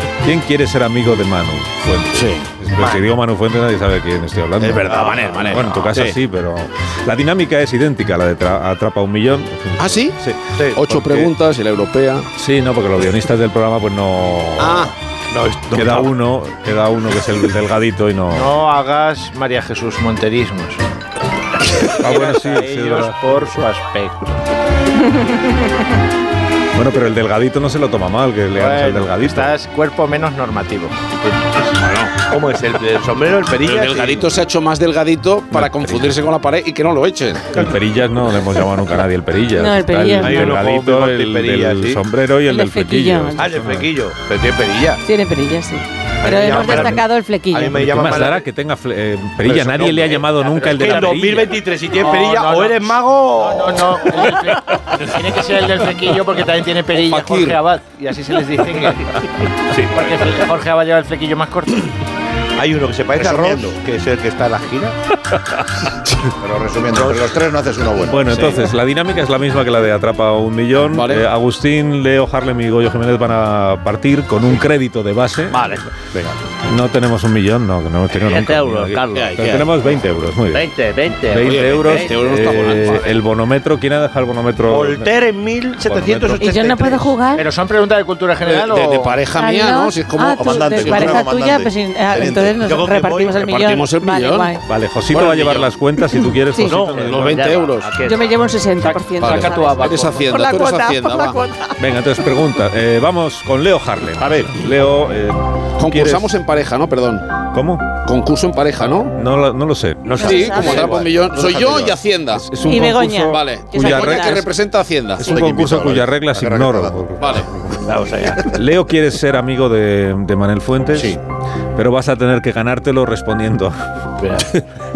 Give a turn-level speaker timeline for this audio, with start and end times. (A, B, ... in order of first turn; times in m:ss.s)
0:00.2-0:11.3 A
0:02.1-0:02.5 B
0:02.8-0:03.0 C
0:04.6-0:06.2 B
0:04.9-0:06.0 C
0:09.8-0:10.2 B
0:10.7-0:12.3 B
0:12.4-0:14.9 A
0:14.6-0:14.9 B
0:15.3-0:16.1 C
0:15.7-0:18.5 A
0:18.3-0:20.8 D
0:21.8-0:24.4 D
0:22.0-0:23.6 A
0:26.7-0:29.5 A
0:28.5-0:31.7 D
0:31.8-0:32.2 B
0:32.2-0:34.3 C
0:33.6-0:37.7 B
0:35.5-0:36.2 A
0:37.5-0:43.9 A
0:39.6-0:40.6 E
0:40.2-0:42.0 C
0:42.4-0:43.6 E
0:43.4-0:45.0 C
0:45.0-0:47.8 E
0:46.2-0:48.4 C
0:46.5-0:47.0 A
0:47.7-0:51.6 A
0:49.4-0:54.3 C
0:50.5-0:51.1 D
0:51.9-0:59.2 D
0:57.0-0:57.6 B
0:59.7-1:00.3 C
0:59.8-1:01.9 D
1:02.6-1:05.0 C
1:03.2-1:03.8 F
1:06.4-1:08.5 F
1:06.9-1:07.2 C
1:08.1-1:15.9 A
1:08.3-1:08.6 B
1:10.9-1:11.3 B
1:16.6-1:20.7 A
1:18.1-1:19.4 G
1:19.1-1:19.9 B
1:20.5-1:22.1 G
1:21.3-1:25.2 A
1:21.3-1:23.2 B
1:22.5-1:22.9 C
1:24.7-1:27.1 C
1:25.8-1:26.5 A
1:26.4-1:27.4 E
1:27.3-1:29.2 D
1:28.4-1:31.2 B
1:29.3-1:34.6 E
1:30.3-1:32.7 F
1:32.6-1:33.4 C
1:33.4-1:34.5 B
1:34.6-1:37.6 A
1:35.1-1:35.5 C
1:35.3-1:35.7 B
1:36.5-1:36.9 E
1:36.6-1:38.2 C
1:37.0-1:37.9 B
1:37.1-1:38.1 G
1:38.0-1:41.8 E
1:39.2-1:41.4 B
1:41.8-1:46.3 A
1:44.2-1:44.6 F
1:45.8-1:47.3 B
1:47.5-1:47.9 A
1:48.0-1:49.2 B
1:49.1-1:50.6 A
1:50.1-1:51.1 C
1:50.2-1:52.5 B
1:50.2-1:50.9 E
1:51.3-1:52.0 F
1:52.3-1:54.4 A
1:52.6-1:54.4 E
1:53.2-1:55.3 B
1:55.2-1:57.8 A
1:55.2-1:57.0 F
1:57.2-1:57.5 B
1:57.8-1:58.6 C
1:58.5-2:01.2 A
2:00.9-2:01.2 F
2:01.8-2:03.8 A
2:04.2-2:04.5 C